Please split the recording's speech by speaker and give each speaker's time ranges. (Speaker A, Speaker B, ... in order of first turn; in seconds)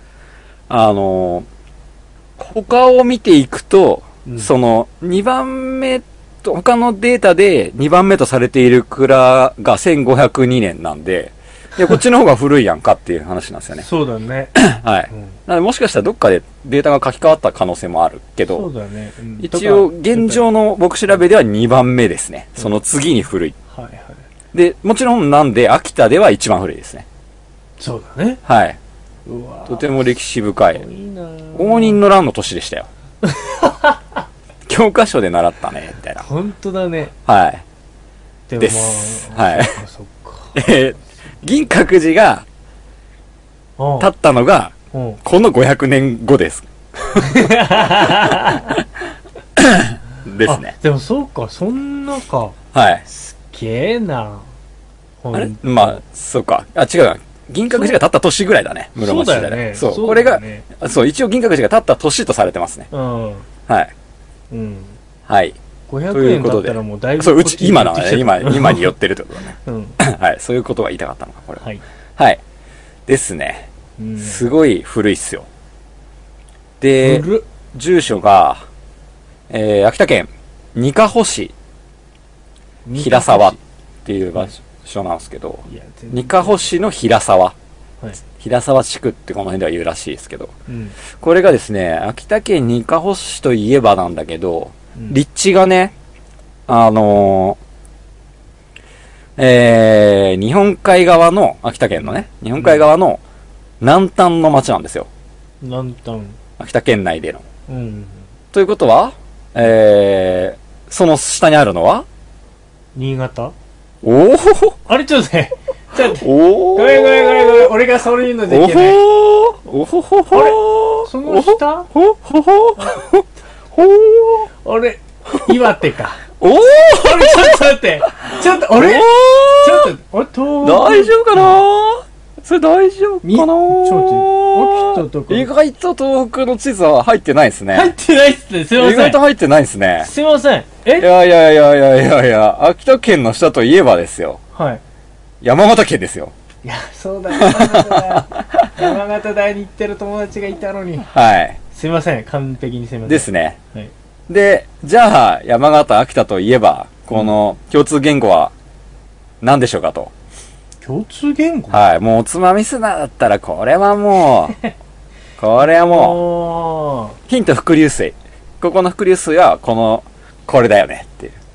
Speaker A: 0.7-1.4, 2.4-13.8, 14.5-18.7, 19.4-23.6, 24.5-27.1, 28.4-28.8, 29.7-30.8, 31.5-32.9, 34.7-36.2, 37.2-37.6, 38.6-39.8, 40.5-42.5, 44.0-48.8, 49.5-50.7, 52.7-53.0, 55.3-62.9, 65.3-65.5, 66.1-71.6, 73.1-73.7, 74.2-75.5, 76.8-78.6, 79.5-81.5, 83.0-87.5, 88.3-90.5, 91.1-95.9, 96.7-97.6, 99.4-103.2, 103.8-105.1, 106.6-107.4, 108.5-112.0, 114.0-114.8, 116.1-117.7, 118.5-124.5, 126.4-127.6, 128.2-129.9, 130.6-137.9, 138.8-140.1, 141.0-144.4, 145.4-146.3, 147.3-148.8, 151.1-151.6, 153.1-153.6, 154.3-158.5, 159.4-160.1, 161.7-164.6, 165.4-166.2, 167.3-171.3
Speaker B: 4.2-4.5, 13.8-14.5, 15.1-15.4, 18.5-20.4, 23.7-24.2, 27.8-28.4, 29.2-30.1, 30.7-32.0, 33.2-34.2, 36.2-37.1, 38.5-40.7, 43.8-44.1, 44.9-45.2, 47.1-48.8, 50.4-54.5, 55.2-56.0, 57.7-58.0, 59.0-60.7, 62.9-63.5, 64.5-65.0, 65.9-68.9, 69.6-70.0, 74.0-74.4, 77.0-77.5, 82.8-83.6, 85.7-86.6, 90.7-91.0, 102.6-102.8, 105.6-106.4, 107.7-108.3, 112.9-113.5, 114.9-119.0, 120.3-121.9, 124.6-126.2, 126.9-131.6, 133.2-135.5, 137.7-139.2, 140.0-141.1, 144.5-144.8, 146.6-151.1, 151.7-153.9, 160.8-161.8, 165.6-167.2